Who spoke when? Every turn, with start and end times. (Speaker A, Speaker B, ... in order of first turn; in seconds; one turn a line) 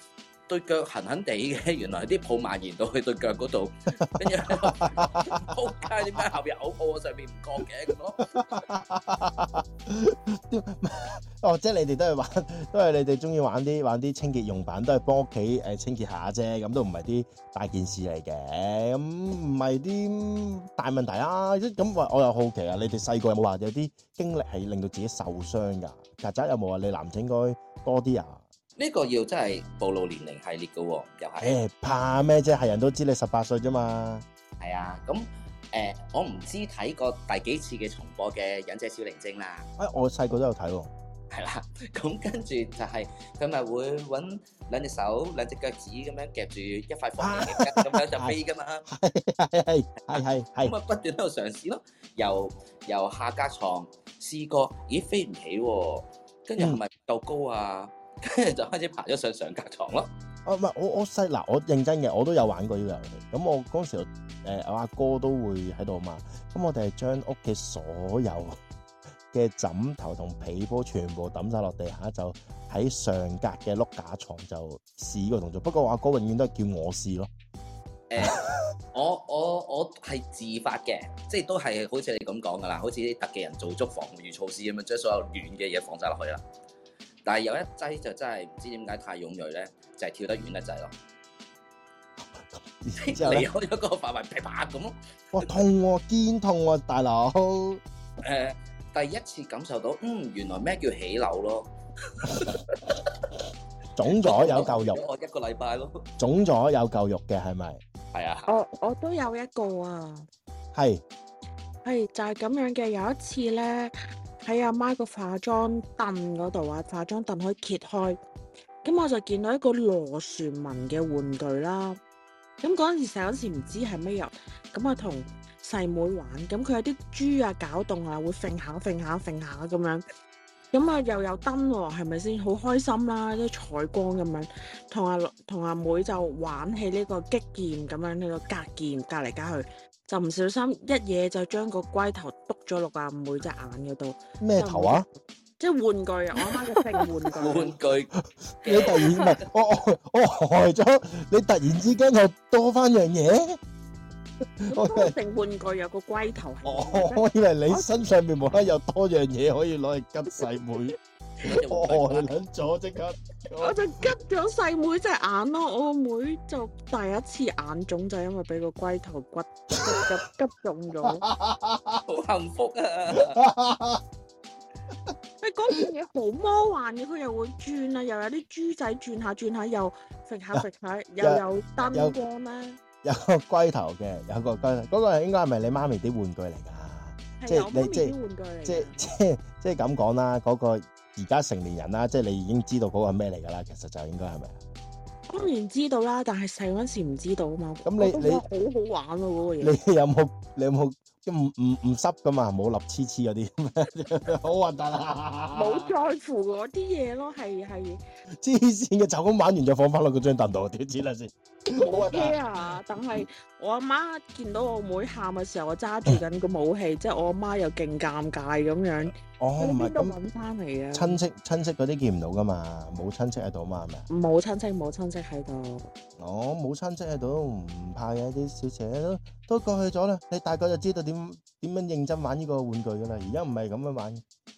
Speaker A: 0.5-8.4
Speaker B: 4.1-5.4
Speaker B: 8.3-28.4
Speaker A: 28.8-31.5
Speaker B: 31.4-34.2
Speaker A: 34.6-39.7
Speaker B: 39.8-40.9
Speaker A: 41.3-48.9
Speaker B: 47.2-50.7
Speaker A: 50.1-60.1
Speaker B: 60.4-68.6
Speaker B: 69.3-77.3
Speaker A: 78.1-78.4
Speaker B: 78.2-78.4
Speaker A: 78.9-86.4
Speaker A: 87.2-90.9
Speaker B: 92.2-93.5
Speaker A: 93.0-94.9
Speaker B: 95.3-97.8
Speaker A: 98.2-101.7
Speaker A: 102.2-103.2
Speaker B: 104.0-105.0
Speaker A: 104.2-106.0
Speaker B: 106.2-107.8
Speaker A: 108.1-108.5
Speaker C: 108.5-110.3
Speaker B: 110.7-111.0
Speaker C: 111.8-118.2
Speaker C: 118.8-122.0
Speaker C: 122.6-130.0
Speaker C: 130.7-147.8
Speaker B: 144.4-145.1
Speaker A: 147.4-149.3
Speaker B: 148.6-153.6
Speaker B: 154.6-155.1
Speaker C: 154.7-157.9
Speaker B: 156.6-163.8
Speaker A: 161.4-162.3
Speaker C: 163.6-171.2
Speaker B: 169.8-170.1
Speaker B: 171.2-172.0
Speaker A: 172.1-173.4
Speaker B: 173.1-174.0
Speaker C: 175.4-182.8
Speaker B: 181.2-182.2
Speaker B: 183.0-194.6
Speaker C: 187.4-189.0
Speaker C: 195.3-199.7
Speaker B: 197.8-198.4
Speaker B: 199.6-205.9
Speaker C: 205.5-208.0
Speaker B: 208.4-212.4
Speaker C: 211.7-221.2
Speaker B: 219.3-220.2
Speaker B: 220.9-224.1
Speaker C: 224.1-225.9
Speaker B: 226.2-234.2